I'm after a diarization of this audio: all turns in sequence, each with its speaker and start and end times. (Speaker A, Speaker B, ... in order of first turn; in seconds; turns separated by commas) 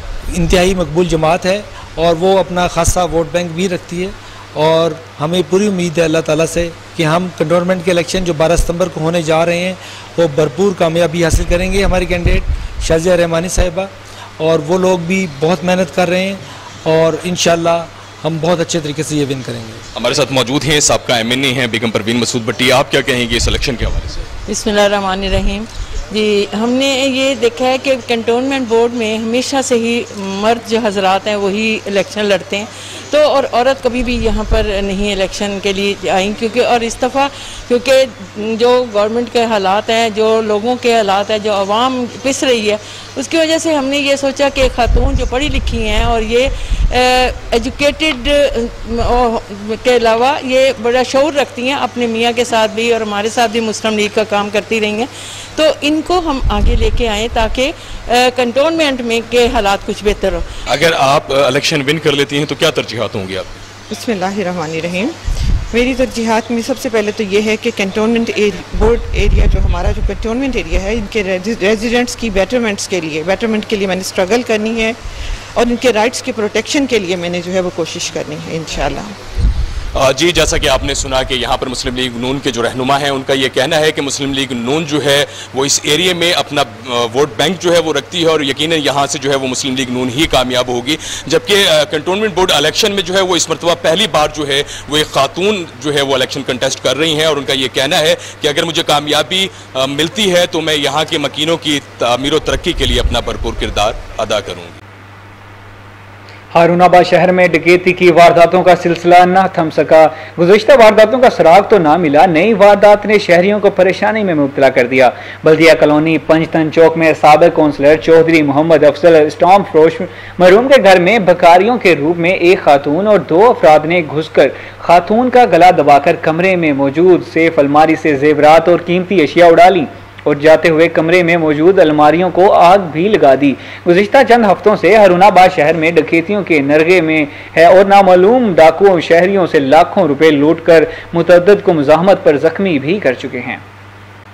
Speaker A: 0.3-19.8, Speaker B: 19.9-24.2, Speaker C: 24.4-60.4, Speaker B: 60.7-63.5, Speaker D: 63.9-65.2, Speaker D: 65.7-75.0, Speaker D: 75.5-79.2, Speaker B: 79.9-104.8, Speaker E: 106.5-143.6